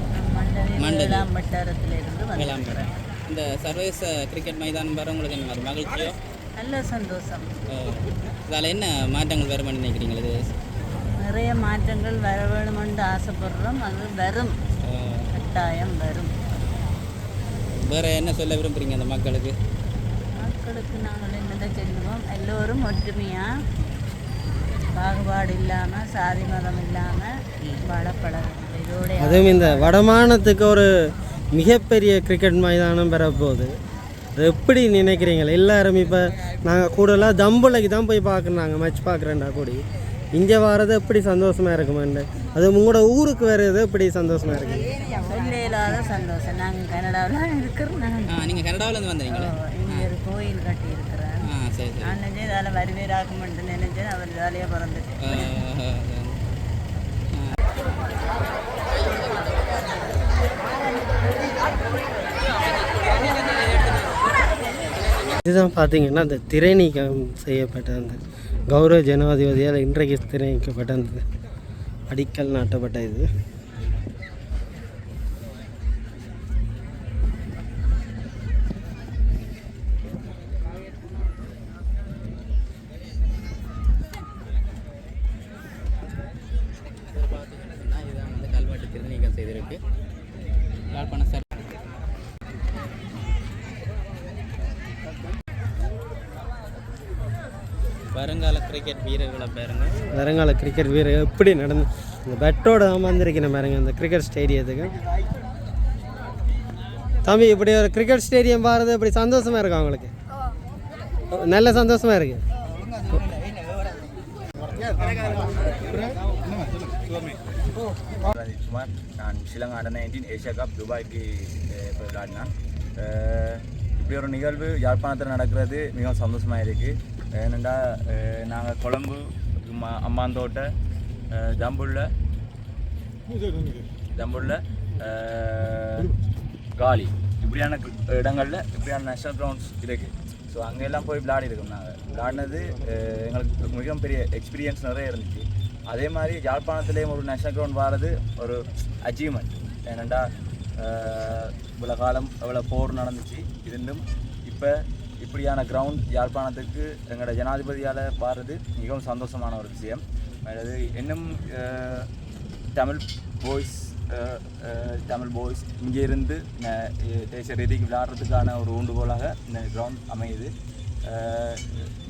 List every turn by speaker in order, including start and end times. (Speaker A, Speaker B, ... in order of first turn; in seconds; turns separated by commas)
Speaker A: 0.1-2.9, Speaker B: 0.8-1.3, Speaker B: 2.4-6.2, Speaker A: 6.6-7.5, Speaker B: 7.7-10.4, Speaker A: 11.2-14.5, Speaker B: 14.8-15.3, Speaker A: 15.3-16.3, Speaker B: 17.7-19.6, Speaker A: 20.4-23.5, Speaker A: 24.9-27.3, Speaker A: 27.8-29.9, Speaker C: 29.2-30.9, Speaker C: 31.5-33.7, Speaker C: 34.4-44.9, Speaker A: 45.2-48.3, Speaker B: 48.3-50.1, Speaker A: 49.3-51.4, Speaker B: 51.4-52.2, Speaker A: 52.0-55.5, Speaker B: 55.2-56.4, Speaker C: 65.5-68.2, Speaker C: 68.7-71.3, Speaker C: 72.1-73.3, Speaker B: 87.2-89.8, Speaker B: 90.9-91.7, Speaker B: 98.1-100.0, Speaker C: 100.1-104.9, Speaker C: 107.2-110.1, Speaker C: 111.3-112.4, Speaker D: 118.3-130.7, Speaker D: 131.3-132.1, Speaker D: 134.1-136.1, Speaker D: 136.8-150.3, Speaker D: 150.8-162.1, Speaker D: 162.7-170.5, Speaker D: 171.0-171.9